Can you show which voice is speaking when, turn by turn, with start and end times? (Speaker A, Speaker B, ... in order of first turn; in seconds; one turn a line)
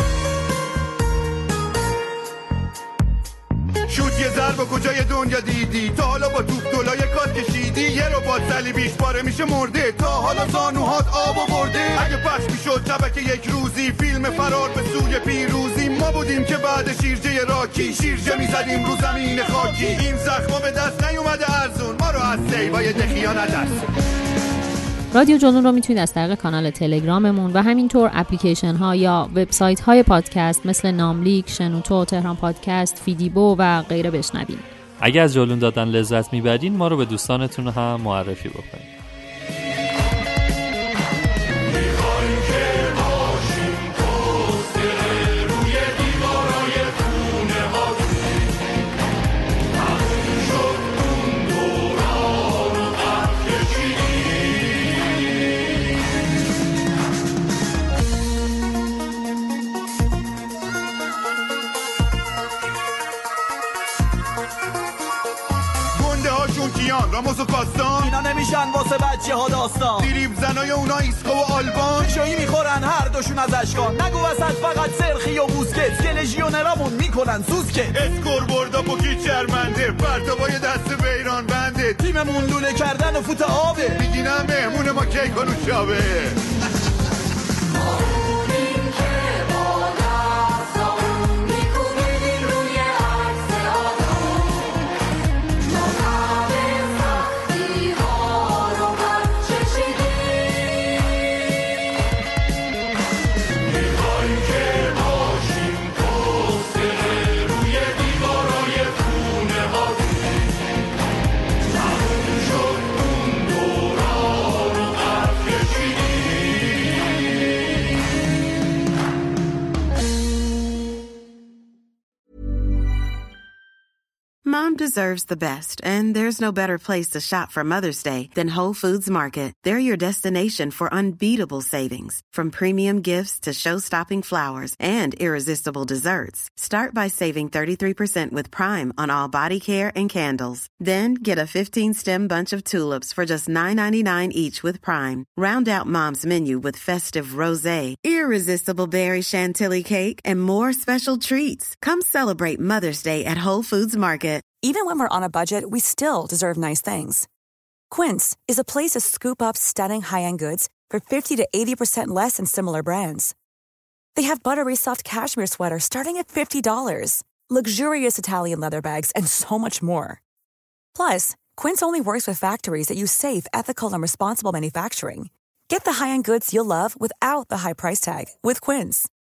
Speaker A: 3.9-23.8
Speaker B: 17.8-20.0
Speaker C: 25.1-34.6
Speaker D: 35.0-38.9
Speaker A: 66.0-68.1
Speaker B: 68.0-70.1
Speaker A: 70.0-72.1
Speaker B: 71.9-78.0
Speaker A: 77.9-82.0
Speaker B: 82.0-84.0
Speaker A: 83.9-86.4
Speaker E: 124.4-154.5
Speaker F: 154.6-157.2
Speaker F: 157.9-163.3
Speaker F: 164.1-170.2
Speaker F: 170.9-179.1